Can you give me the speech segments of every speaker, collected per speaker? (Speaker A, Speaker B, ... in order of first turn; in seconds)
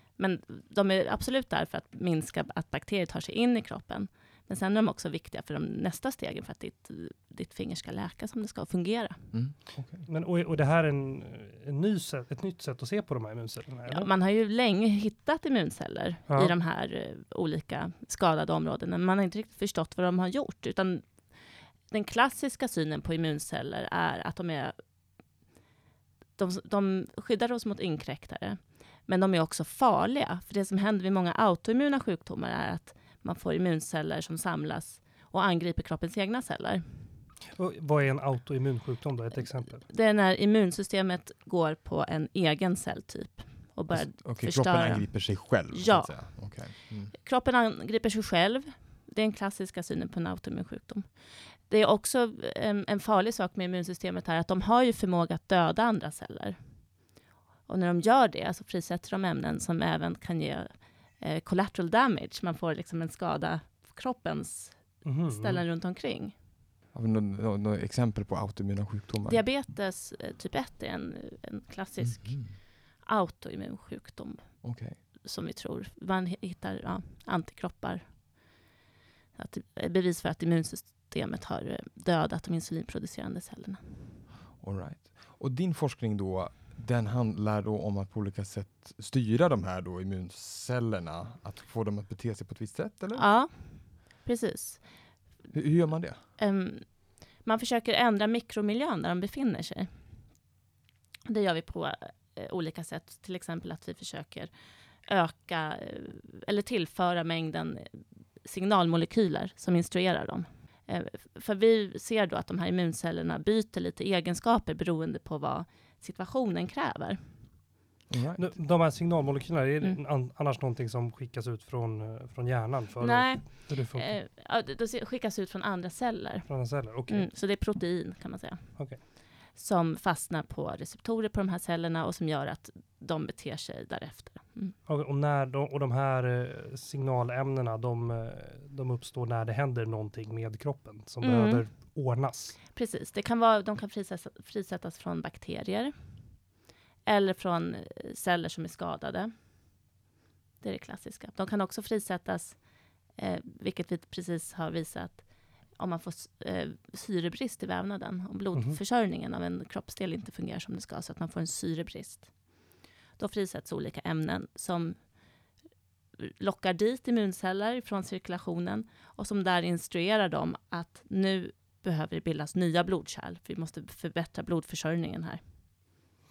Speaker A: 0.1-9.3, 13.9-21.2, 21.9-24.7, 26.4-36.8, 39.7-56.6, 57.6-66.3, 69.2-78.5, 79.3-83.8, 93.2-95.1, 96.4-99.9, 101.3-104.5, 105.0-117.2, 123.0-134.8, 141.2-141.9, 142.7-146.4, 147.0-149.8, 150.6-165.2, 166.2-175.4
Speaker B: 9.3-10.0, 43.9-47.1, 66.9-69.4, 72.0-72.5, 74.6-75.0, 84.6-93.3, 95.5-96.2, 118.1-118.5
Speaker C: 9.9-14.1, 16.3-16.5, 37.5-39.9, 65.0-65.6, 118.4-124.2, 126.5-127.3, 134.8-142.6, 158.5-158.8